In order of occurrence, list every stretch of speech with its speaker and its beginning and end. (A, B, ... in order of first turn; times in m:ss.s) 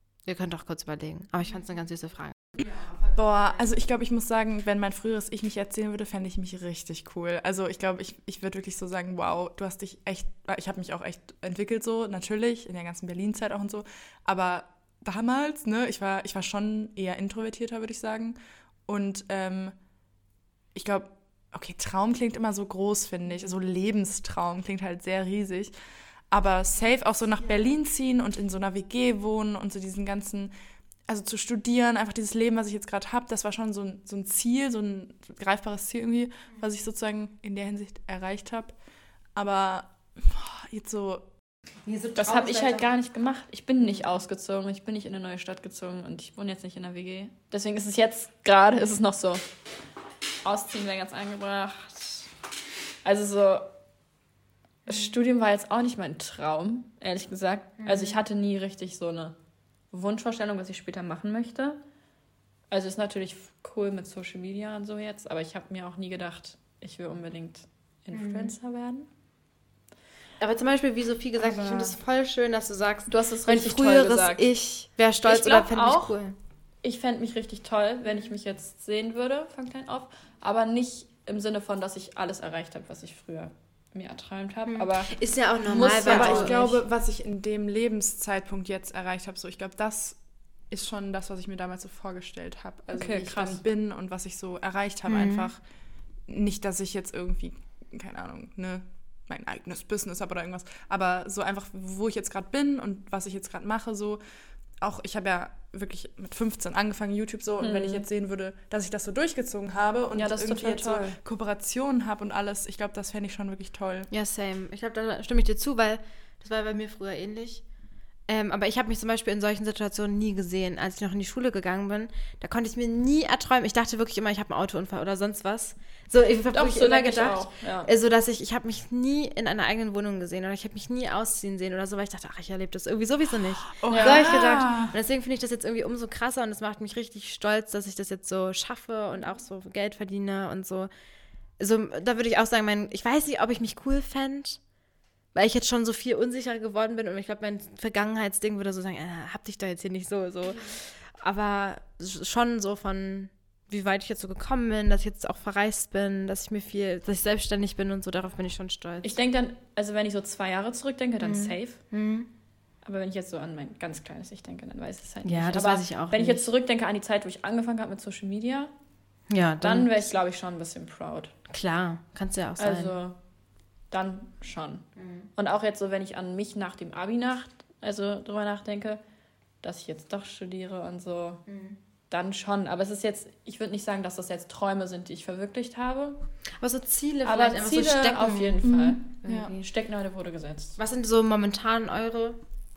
0:00.2-0:02.5 A
0:03.1-0:19.8 B
0:20.7-0:25.7 B
0:26.3-0:30.5 B
0:31.1-0:38.8 B
0:39.4-0:41.3 B
0:41.9-0:42.9 A
0:42.2-0:49.4 C
0:50.4-0:52.3 C
0:53.0-0:53.7 C
0:54.9-0:59.4 C
0:57.8-0:58.2 A
0:59.9-1:01.8 C
1:02.7-1:09.1 C
1:08.1-1:08.5 A
1:10.4-1:16.4 A
1:11.4-1:12.0 C
1:13.1-1:14.5 C
1:15.2-1:16.1 C
1:16.8-1:26.8 C
1:24.7-1:26.6 A
1:26.1-1:30.2 B
1:30.7-1:35.6 B
1:32.9-1:33.6 C
1:35.1-1:35.5 A
1:36.3-1:44.2 B
1:44.8-1:54.1 B
1:47.6-1:48.0 C
1:50.2-1:51.2 C
1:54.1-1:57.6 A
1:58.3-2:20.9 A
2:06.5-2:07.9 C
2:13.8-2:14.9 B
2:13.9-2:14.2 C
2:21.6-2:24.6 A
2:25.3-2:39.1 A
2:39.0-2:41.8 C
2:41.2-2:42.3 A
2:42.8-2:48.7 C
2:45.2-2:46.5 A
2:49.3-2:49.9 A
2:49.6-2:51.3 C
2:51.5-2:52.9 A
2:52.6-2:53.2 C
2:53.9-2:54.8 C
2:55.0-2:55.3 A
2:55.4-2:59.0 C
2:59.6-3:01.4 C
3:01.5-3:01.8 A
3:02.1-3:06.2 C
3:06.6-3:09.6 A
3:07.2-3:10.8 C
3:08.6-3:09.5 B
3:10.8-3:12.4 A